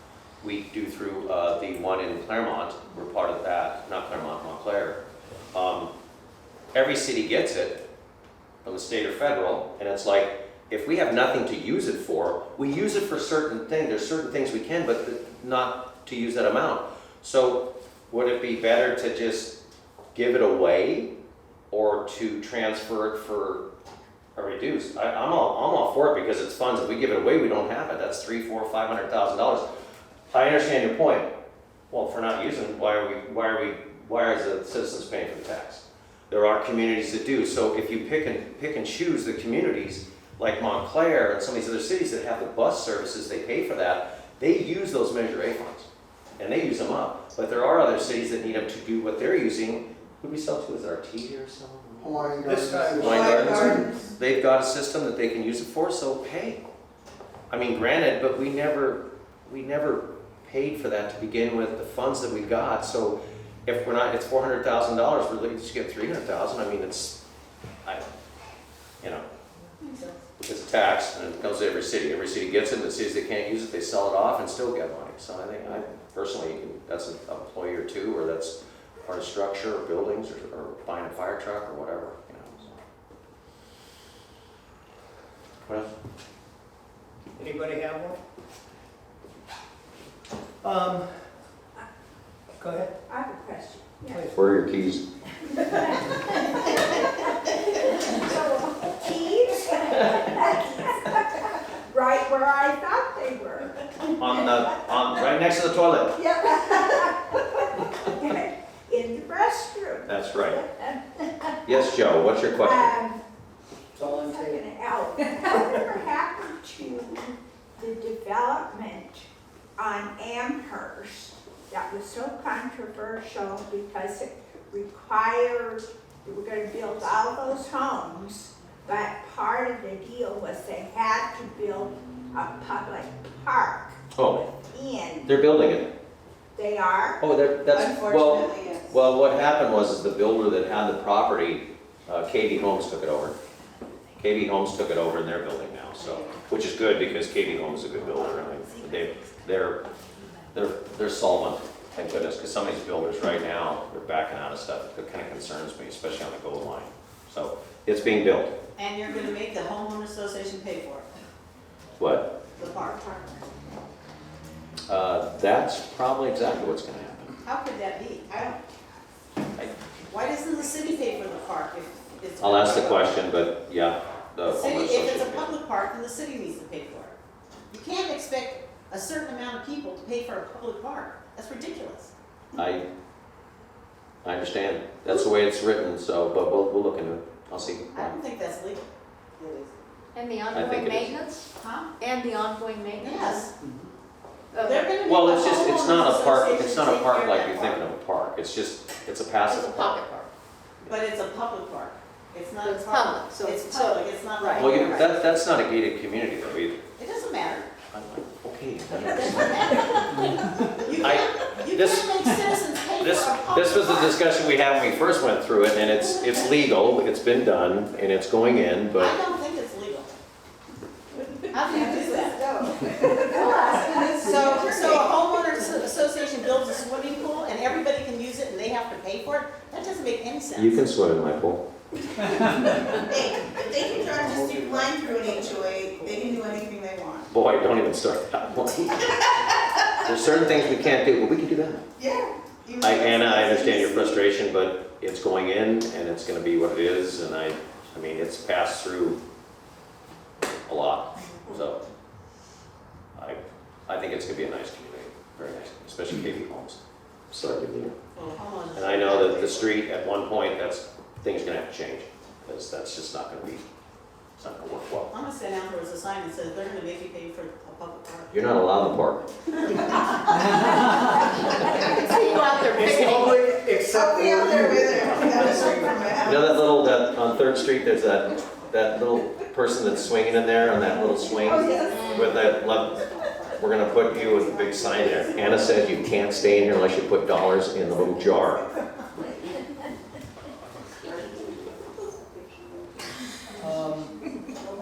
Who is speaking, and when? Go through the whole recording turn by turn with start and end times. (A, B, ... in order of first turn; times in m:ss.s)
0:00.4-0:05.0 A
0:05.5-0:05.9 A
0:06.7-0:07.8 A
0:08.6-0:19.6 A
0:20.2-0:21.1 A
0:21.7-0:23.6 A
0:24.4-0:29.7 A
0:30.3-0:31.3 A
0:31.9-0:56.6 A
0:52.0-0:54.1 B
0:52.4-0:53.9 C
0:57.5-1:07.2 A
1:10.4-1:22.8 A
1:25.7-1:25.9 A
1:27.4-1:28.2 C
1:30.6-1:31.1 C
1:32.6-1:32.9 C
1:33.1-1:34.3 D
1:34.3-1:35.0 A
1:35.4-1:43.8 D
1:44.2-1:46.2 A
1:46.2-1:51.9 D
1:50.1-1:50.6 A
1:51.7-1:53.0 A
1:52.6-1:53.2 D
1:54.0-2:14.0 D
1:54.0-1:54.6 C
2:14.2-2:14.5 A
2:14.6-2:15.4 D
2:15.3-2:15.9 A
2:16.6-2:17.2 D
2:17.2-2:23.4 A
2:17.7-2:19.0 B
2:24.2-2:29.8 A
2:30.5-2:38.6 A
2:38.8-2:41.1 E
2:42.0-2:42.3 A
2:42.6-2:43.4 E
2:44.9-2:47.4 A
2:47.4-2:48.6 E
2:50.1-2:53.3 E
2:52.4-2:55.5 A
2:54.5-2:57.1 E
2:57.7-3:02.1 E
3:02.6-3:02.9 A
3:04.2-3:08.2 A
3:07.9-3:09.8 E
3:10.1-3:13.5 F
3:10.5-3:11.2 A
3:11.6-3:12.0 E
3:13.0-3:13.5 E
3:14.5-3:15.0 F
3:14.6-3:17.9 E
3:15.0-3:20.0 A
3:19.5-3:20.3 F
3:20.9-3:25.2 E
3:22.6-3:24.8 F
3:24.6-3:26.8 A
3:27.0-3:27.7 E
3:27.9-3:29.8 A
3:28.9-3:34.2 E
3:30.8-3:32.3 A
3:33.0-3:39.2 A
3:39.0-3:40.2 E
3:41.5-3:42.4 E
3:41.7-3:45.3 B
3:43.0-3:44.3 D
3:43.9-3:50.8 E
3:50.6-3:51.6 A
3:52.2-3:57.3 B
3:54.1-3:55.0 C
3:57.3-4:01.9 A
4:02.0-4:04.2 B
4:02.8-4:09.2 A
4:10.7-4:11.8 A
4:13.2-4:16.8 A
4:17.3-4:18.0 A
4:18.2-4:19.8 E
4:18.8-4:23.7 A
4:24.4-4:25.1 A
4:25.1-4:28.5 E
4:28.3-4:29.3 A
4:29.8-4:30.7 E
4:30.3-4:32.1 C
4:31.8-4:33.5 F
4:32.1-4:32.9 E
4:32.7-4:36.2 C
4:33.8-4:36.7 B
4:36.2-4:48.7 A
4:41.3-4:42.1 B
4:41.4-4:42.5 F
4:53.6-4:54.2 C